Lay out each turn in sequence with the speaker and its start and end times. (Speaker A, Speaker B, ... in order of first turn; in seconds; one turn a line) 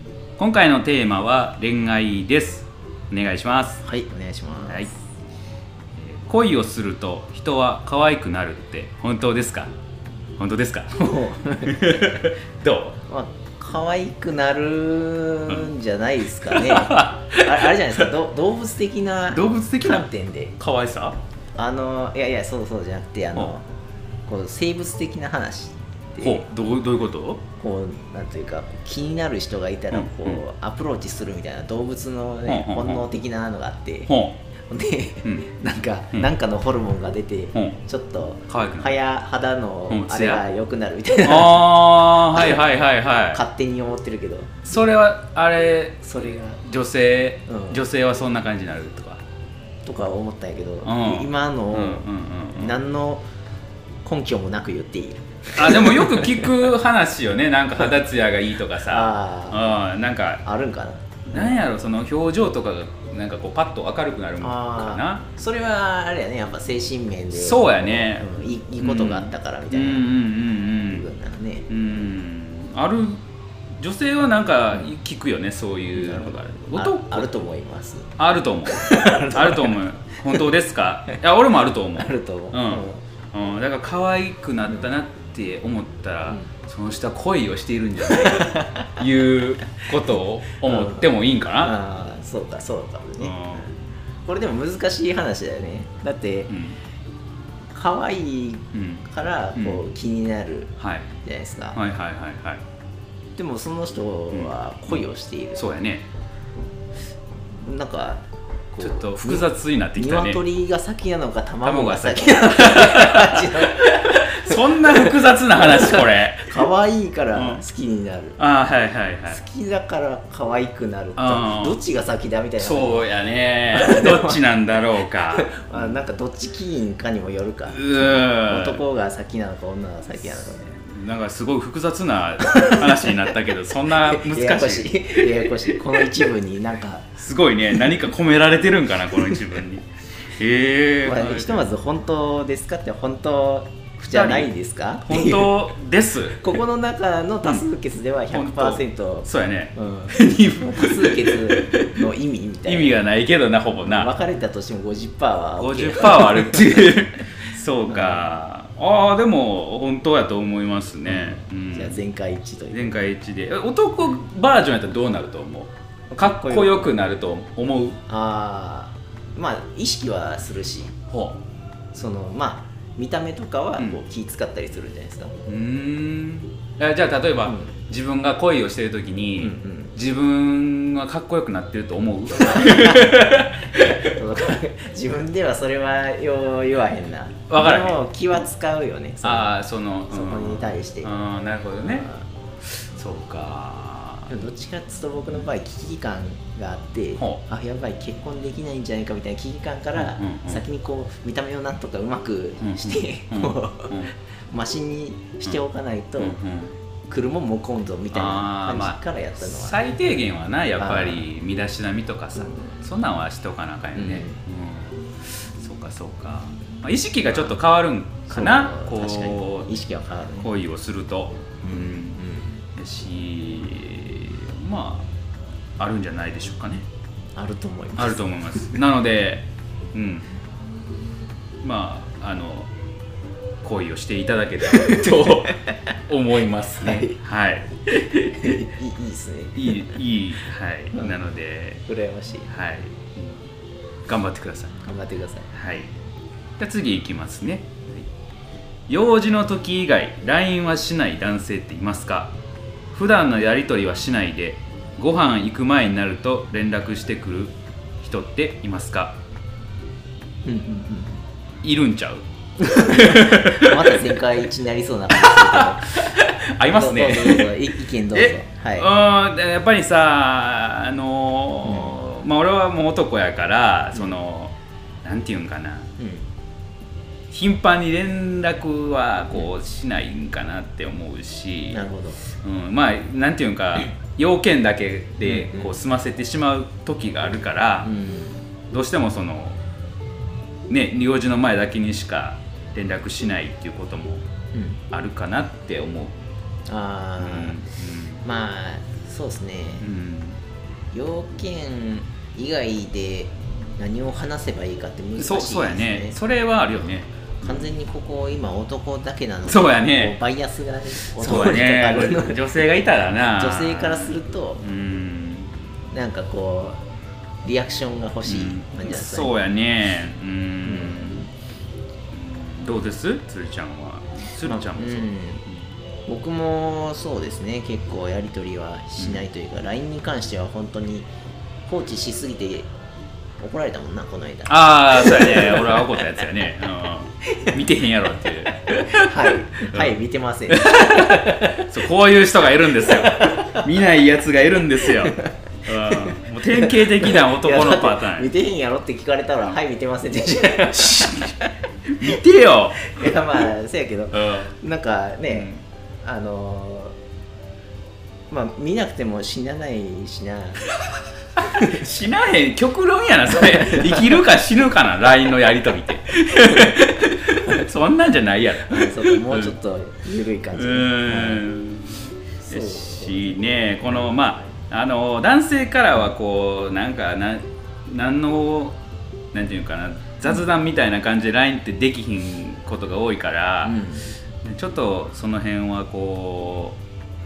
Speaker A: 0.4-3.8
Speaker B: 3.8-4.9
Speaker A: 4.6-4.9
Speaker A: 5.9-9.7
Speaker A: 10.4-11.1
Speaker B: 10.9-12.2
Speaker A: 11.6-13.0
Speaker B: 13.1-20.5
Speaker A: 16.4-18.1
Speaker A: 19.3-21.2
Speaker B: 21.6-23.6
Speaker B: 24.3-26.5
Speaker A: 26.2-27.4
Speaker B: 27.6-34.1
Speaker A: 29.9-30.4
Speaker A: 32.5-33.1
Speaker A: 34.1-34.4
Speaker B: 34.7-41.7
Speaker A: 37.5-37.8
Speaker A: 38.5-38.9
Speaker A: 39.9-40.4
Speaker A: 41.2-43.4
Speaker B: 42.3-42.6
Speaker B: 43.3-44.6
Speaker A: 44.6-49.2
Speaker B: 46.0-46.6
Speaker B: 47.5-47.8
Speaker B: 49.8-53.2
Speaker A: 50.8-52.8
Speaker B: 54.0-56.6
Speaker A: 55.5-60.4
Speaker B: 58.8-59.8
Speaker B: 60.4-61.5
Speaker A: 61.3-65.2
Speaker B: 64.4-70.1
Speaker A: 67.3-71.1
Speaker B: 70.9-71.7
Speaker A: 71.7-73.2
Speaker A: 73.8-77.4
Speaker B: 76.0-78.1
Speaker A: 78.2-91.7
Speaker B: 78.7-79.8
Speaker B: 81.9-83.0
Speaker B: 88.0-89.0
Speaker B: 90.6-93.7
Speaker A: 93.2-93.7
Speaker B: 94.2-96.5
Speaker A: 96.5-96.8
Speaker B: 97.7-101.8
Speaker A: 98.7-99.8
Speaker A: 100.8-101.1
Speaker A: 101.7-102.6
Speaker B: 103.3-105.6
Speaker A: 104.3-105.0
Speaker A: 105.5-106.0
Speaker B: 107.5-118.4
Speaker A: 108.8-110.4
Speaker A: 111.6-116.7
Speaker A: 117.3-117.6
Speaker A: 118.4-119.4
Speaker B: 119.3-123.1
Speaker A: 121.2-121.8
Speaker A: 122.6-125.9
Speaker B: 123.7-124.4
Speaker B: 125.3-130.7
Speaker A: 127.7-128.8
Speaker A: 130.2-136.2
Speaker B: 132.4-133.2
Speaker B: 134.1-137.1
Speaker A: 137.2-141.7
Speaker B: 141.0-145.7
Speaker A: 144.1-144.5
Speaker A: 145.0-146.5
Speaker B: 146.2-153.0
Speaker A: 148.3-152.0
Speaker A: 152.6-154.1
Speaker B: 153.8-157.0
Speaker A: 155.6-162.0
Speaker B: 157.9-158.2
Speaker B: 161.1-162.9
Speaker A: 162.7-168.0
Speaker B: 166.1-167.0
Speaker B: 168.1-170.9
Speaker A: 171.1-171.4
Speaker B: 171.9-175.3
Speaker A: 175.4-184.1
Speaker B: 177.4-177.7
Speaker B: 179.4-179.9
Speaker B: 182.4-189.5
Speaker A: 187.5-188.0
Speaker A: 189.2-192.1
Speaker B: 190.1-191.1
Speaker B: 191.8-192.2
Speaker A: 192.8-194.3
Speaker B: 194.3-206.4
Speaker A: 199.9-200.6
Speaker A: 202.6-204.1
Speaker A: 206.2-206.7
Speaker B: 207.1-211.3
Speaker A: 208.1-219.7
Speaker B: 212.4-212.8
Speaker B: 213.9-214.4
Speaker B: 217.2-217.6
Speaker B: 218.3-220.5
Speaker A: 220.4-222.2
Speaker B: 221.6-222.5
Speaker A: 222.7-225.1
Speaker A: 225.8-226.8
Speaker B: 227.3-228.8
Speaker A: 228.0-230.3
Speaker A: 231.6-232.7
Speaker A: 233.6-238.7
Speaker B: 234.7-235.8
Speaker B: 236.8-237.2
Speaker B: 238.3-240.0
Speaker A: 239.5-241.8
Speaker B: 240.9-241.2
Speaker B: 241.8-242.5
Speaker A: 242.5-243.4
Speaker A: 244.1-244.8
Speaker B: 244.8-245.5
Speaker A: 245.5-245.9
Speaker A: 246.6-248.1
Speaker A: 248.9-252.3
Speaker A: 252.9-259.2
Speaker B: 260.4-261.2
Speaker A: 261.6-264.1
Speaker B: 262.6-266.1
Speaker A: 265.1-275.9
Speaker B: 266.6-268.9
Speaker B: 271.6-272.0
Speaker B: 276.0-276.2
Speaker A: 277.3-281.8
Speaker B: 281.7-282.2
Speaker A: 282.3-287.9
Speaker B: 285.2-285.7
Speaker B: 287.8-288.4
Speaker A: 288.7-289.6
Speaker A: 290.7-294.2
Speaker B: 294.5-294.8
Speaker A: 294.9-296.1
Speaker B: 296.7-297.6
Speaker A: 297.2-298.2
Speaker B: 298.2-299.9
Speaker A: 299.8-300.4
Speaker B: 300.9-306.1
Speaker A: 305.2-307.7
Speaker B: 307.4-312.6
Speaker A: 309.4-310.1
Speaker A: 311.0-315.6
Speaker B: 313.3-314.6
Speaker B: 315.9-316.8
Speaker B: 317.4-319.3
Speaker A: 318.2-321.3
Speaker B: 320.6-321.2
Speaker A: 322.1-325.7
Speaker B: 324.4-325.4
Speaker B: 326.1-331.1
Speaker A: 329.0-329.2
Speaker B: 331.7-332.7
Speaker B: 333.4-336.3
Speaker A: 334.5-339.9
Speaker B: 337.3-337.6
Speaker B: 338.6-341.7
Speaker A: 340.5-348.3
Speaker B: 342.8-343.6
Speaker B: 344.8-351.3
Speaker A: 350.7-351.4
Speaker A: 351.9-353.1
Speaker B: 352.8-355.5
Speaker A: 354.1-354.5
Speaker A: 355.3-355.6
Speaker B: 356.0-356.9
Speaker B: 358.3-360.7
Speaker A: 361.4-369.5
Speaker B: 363.4-364.2
Speaker B: 368.7-371.4
Speaker A: 370.5-378.8
Speaker B: 372.4-373.7
Speaker A: 379.3-383.8
Speaker B: 383.6-384.1
Speaker A: 384.4-386.8